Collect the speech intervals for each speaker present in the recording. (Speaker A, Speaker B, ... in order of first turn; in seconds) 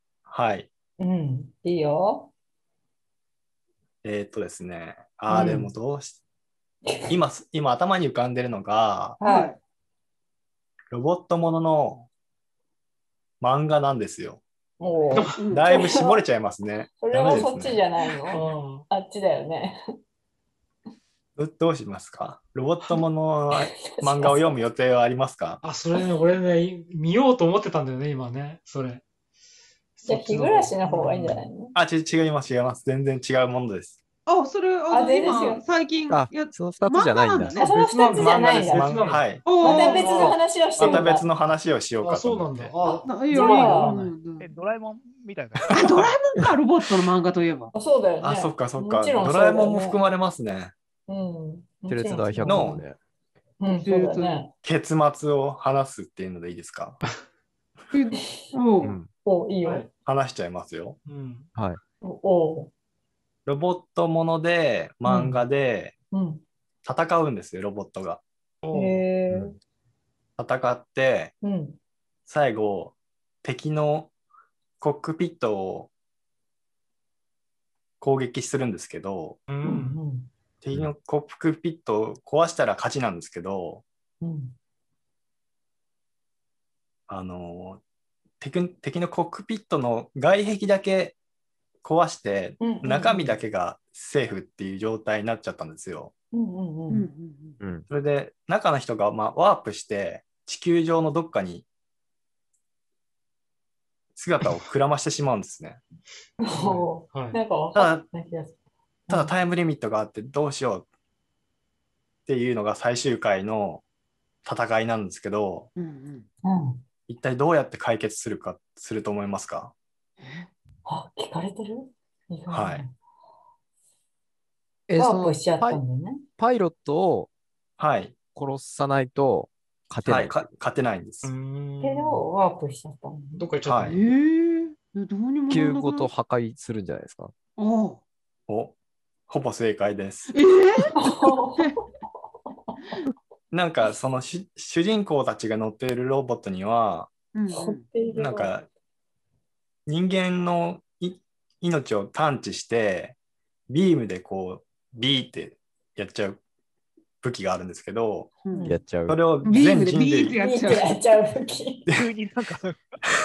Speaker A: 0.3-0.7, 4.0-6.2, 7.1-9.2, 10.9-12.1, 13.4-14.4, 15.5-17.8, 21.4-25.6, 31.7-34.0, 38.1-39.5, 40.8-42.7, 45.6-46.1, 48.2-50.7, 52.5-52.8, 54.6-57.0, 60.0-61.0, 63.5-65.9, 66.8-68.2, 70.4-71.3, 72.3-74.1, 74.8-75.9, 78.0-79.4, 80.6-83.8, 87.1-87.8, 88.4-91.2, 91.8-96.1, 97.9-101.7, 104.2-105.8, 107.8-108.0, 109.1-110.8, 112.3-113.8, 114.5-115.7, 117.1-119.7, 122.5-122.8, 127.8-128.2, 130.0-131.3, 133.7-134.0, 138.5-138.8, 139.3-140.3, 143.5-147.1, 148.2-148.7, 149.9-153.2, 153.7-156.4, 157.2-158.3, 159.1-160.4
Speaker B: 1.0-2.3, 5.3-5.7, 9.2-9.5, 14.8-16.2, 17.0-19.8, 23.6-24.6, 30.1-31.7, 34.9-35.6, 37.6-41.3, 43.3-44.1, 47.7-50.0, 51.1-52.9, 53.6-54.5, 59.2-59.9, 62.0-62.7, 65.1-65.4, 66.1-66.4, 68.7-69.5, 71.4-71.8, 79.6-80.3, 84.2-84.6, 92.6-93.4, 96.3-97.1, 106.4-108.6, 116.4-116.8, 120.8-122.9, 125.0-126.2, 131.8-133.5, 141.0-141.7, 147.5-148.6, 158.5-158.8, 160.4-161.9
Speaker C: 9.2-9.6, 15.4-15.7, 34.3-37.8, 39.4-40.3, 43.0-44.5, 45.7-47.7, 53.7-54.3, 57.9-59.0, 96.9-97.6, 115.8-116.3, 120.2-120.5, 133.9-136.1, 137.6-138.0, 140.3-140.9, 147.3-147.9, 159.4-160.9
Speaker D: 15.1-15.4, 18.3-18.9, 25.6-29.0, 30.0-31.5, 37.6-41.1, 42.0-44.0, 59.6-59.9, 61.0-61.5, 68.6-69.0, 79.5-80.0, 106.5-107.4, 131.2-132.2, 133.3-134.0
Speaker E: 36.1-37.6, 51.9-53.0, 58.8-59.1, 97.6-97.9, 124.9-125.8, 126.4-127.3, 128.3-130.5, 135.5-137.3, 158.6-159.2
Speaker F: 44.4-45.8, 161.9-162.8